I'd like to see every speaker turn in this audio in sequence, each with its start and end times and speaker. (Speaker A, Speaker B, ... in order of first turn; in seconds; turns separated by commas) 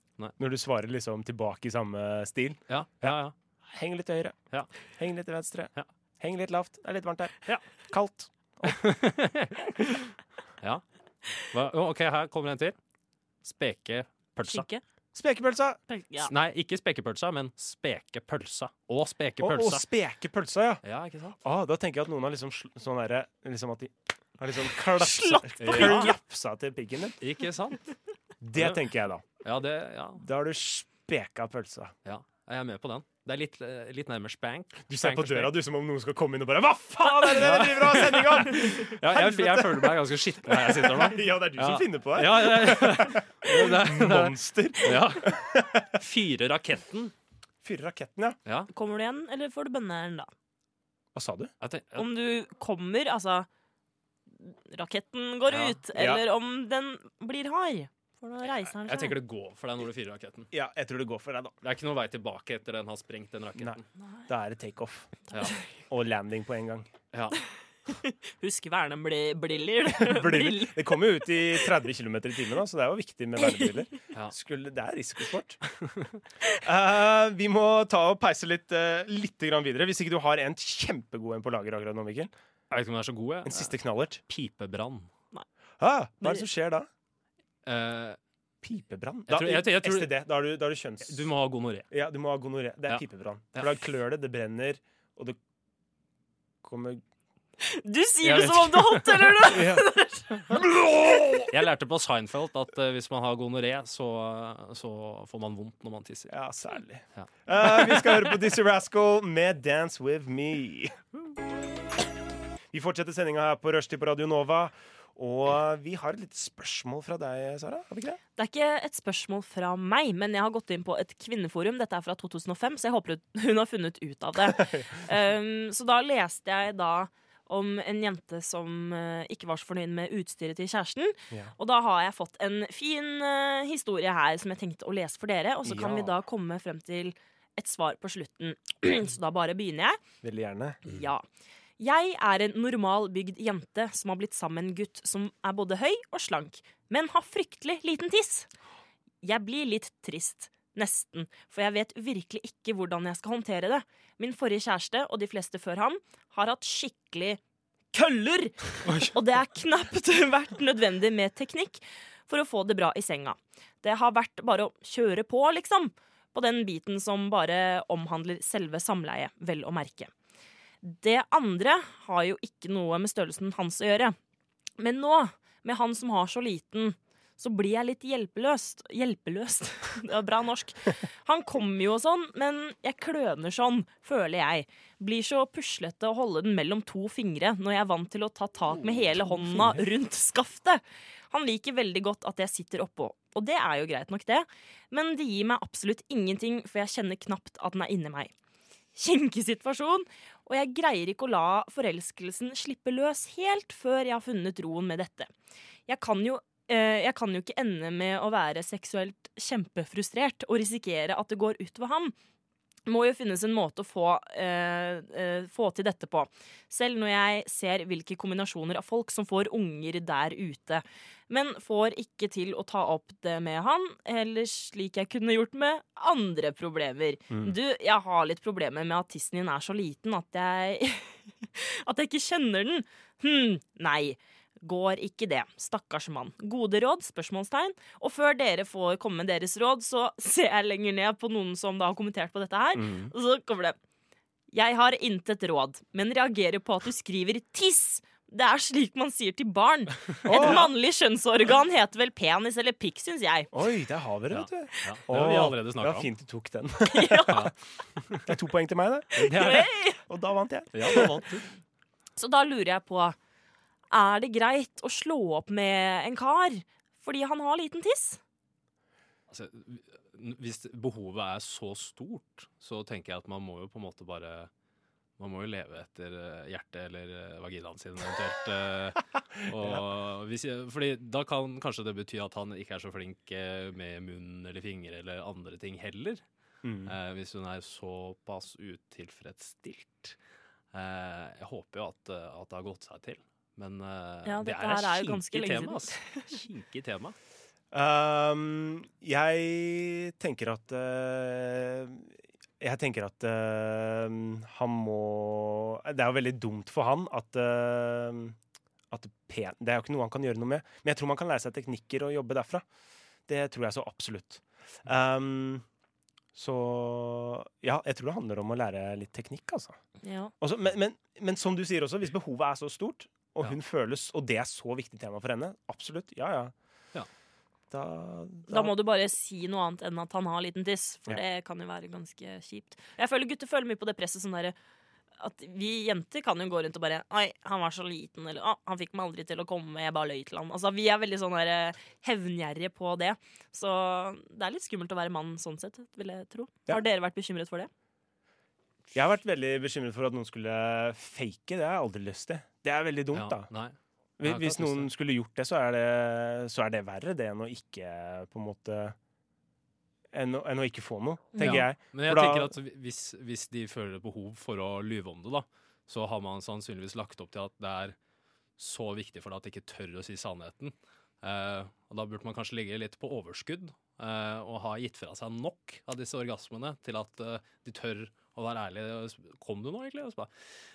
Speaker A: 0.4-4.4, Speaker B: 2.7-3.3, Speaker A: 5.0-8.8, Speaker B: 8.6-12.8, Speaker B: 13.4-14.7, Speaker C: 14.5-14.8, Speaker A: 15.1-15.8, Speaker C: 15.9-16.3, Speaker B: 16.2-19.8, Speaker A: 19.4-20.8, Speaker B: 20.8-21.4, Speaker A: 21.4-27.2, Speaker C: 24.9-26.1, Speaker B: 25.6-26.1, Speaker B: 27.2-27.9, Speaker A: 28.4-29.2, Speaker B: 28.5-28.8, Speaker B: 29.4-30.2, Speaker A: 30.2-31.9, Speaker B: 32.0-35.5, Speaker A: 34.9-46.0, Speaker B: 37.1-47.1, Speaker A: 47.6-48.4, Speaker C: 48.7-50.3, Speaker A: 51.1-51.5, Speaker B: 51.6-52.1, Speaker C: 52.0-53.5, Speaker C: 54.4-59.2, Speaker B: 55.5-55.8, Speaker A: 55.9-56.2, Speaker B: 58.8-60.5, Speaker A: 60.5-61.5, Speaker B: 61.6-63.9, Speaker A: 63.6-65.1, Speaker A: 65.9-66.9, Speaker B: 67.1-67.4, Speaker C: 67.9-70.9, Speaker A: 69.9-75.6, Speaker A: 76.5-82.3, Speaker B: 82.7-83.7, Speaker A: 83.4-84.2, Speaker B: 84.3-85.1, Speaker A: 85.8-86.9, Speaker B: 87.6-88.2, Speaker A: 88.6-91.3, Speaker B: 89.3-90.2, Speaker B: 91.0-91.9, Speaker A: 91.9-95.4, Speaker A: 96.6-97.0, Speaker C: 97.6-100.4, Speaker B: 98.2-99.7, Speaker A: 99.5-99.9, Speaker A: 100.5-101.5, Speaker B: 100.5-106.3, Speaker A: 106.3-111.0, Speaker A: 112.7-118.2, Speaker C: 118.4-140.0, Speaker A: 124.6-124.9, Speaker A: 135.6-136.2, Speaker A: 140.2-140.8, Speaker C: 140.8-141.2, Speaker C: 141.8-148.5, Speaker C: 149.2-157.4, Speaker C: 157.9-170.1, Speaker B: 158.8-159.1, Speaker C: 170.8-174.2, Speaker C: 174.8-198.3, Speaker A: 188.7-189.8, Speaker C: 198.9-205.3, Speaker C: 205.9-212.1, Speaker C: 212.8-243.8, Speaker A: 227.3-227.6, Speaker A: 242.7-243.1, Speaker C: 244.5-253.5, Speaker A: 250.2-250.7, Speaker B: 250.3-250.6, Speaker A: 253.5-257.5, Speaker B: 254.3-256.1, Speaker C: 256.9-257.4, Speaker B: 257.3-258.3, Speaker A: 258.1-261.1, Speaker B: 259.1-259.7, Speaker C: 259.3-260.0, Speaker B: 260.7-261.5, Speaker C: 262.1-263.2, Speaker C: 263.9-268.2, Speaker B: 269.3-274.5, Speaker B: 275.2-286.2, Speaker A: 286.6-286.9, Speaker B: 286.9-290.2, Speaker B: 290.7-297.1, Speaker C: 294.2-296.4, Speaker A: 297.7-308.4, Speaker A: 308.9-312.6, Speaker A: 313.3-315.6, Speaker A: 316.3-319.8, Speaker C: 320.0-320.3, Speaker A: 320.4-326.5, Speaker A: 327.7-328.7, Speaker C: 328.5-334.5, Speaker C: 335.2-347.7, Speaker A: 348.9-353.5, Speaker B: 353.1-354.9, Speaker A: 354.2-358.9, Speaker A: 360.1-362.5, Speaker C: 361.3-361.7, Speaker B: 361.4-367.9, Speaker B: 368.6-380.3